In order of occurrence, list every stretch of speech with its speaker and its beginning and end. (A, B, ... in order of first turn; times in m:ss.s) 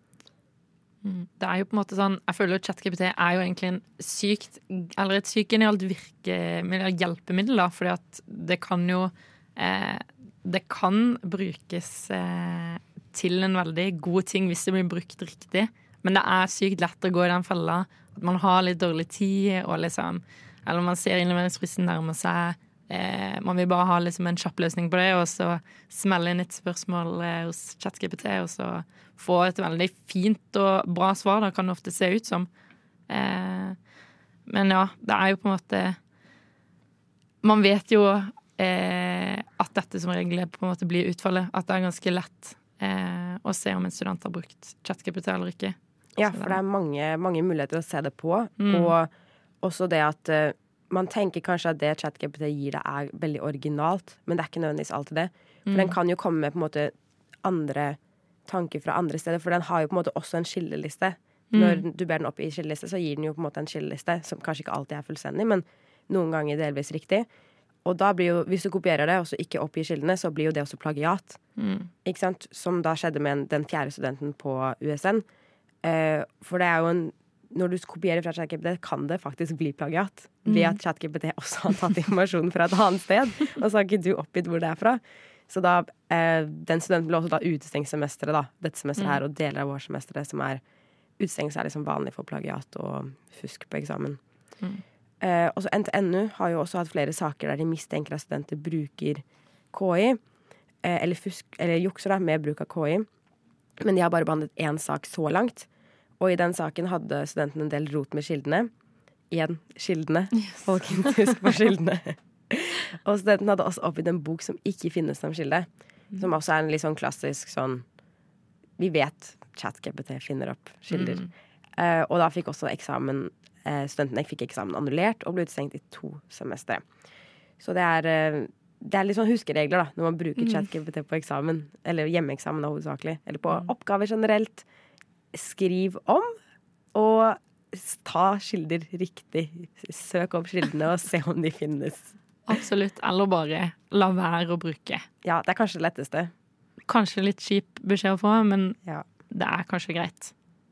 0:01.0-0:32.5 A
0:33.1-0:33.8 A
0:34.5-0:36.0 A
0:37.4-0:45.8 A
0:46.2-0:49.1 B
0:46.3-0:46.6 A
0:48.6-0:48.9 A
0:49.6-1:07.3 B
0:55.7-0:56.0 A
1:01.5-1:01.8 A
1:07.8-1:11.4 B
1:11.6-1:11.9 A
1:12.0-1:15.2 B
1:15.8-1:30.6 B
1:20.4-1:20.8 A
1:31.2-1:34.2 B
1:35.2-1:40.2 B
1:40.8-1:43.1 B
1:43.8-1:45.7 B
1:46.2-1:48.7 B
1:49.3-1:57.8 B
1:50.4-1:51.3 A
1:58.8-2:01.2 B
2:00.9-2:01.3 A
2:01.8-2:06.8 B
2:07.6-2:14.6 B
2:15.3-2:16.4 B
2:16.9-2:22.1 B
2:22.5-2:25.1 A
2:25.2-2:26.3 B
2:26.9-2:28.8 A
2:29.3-2:30.3 A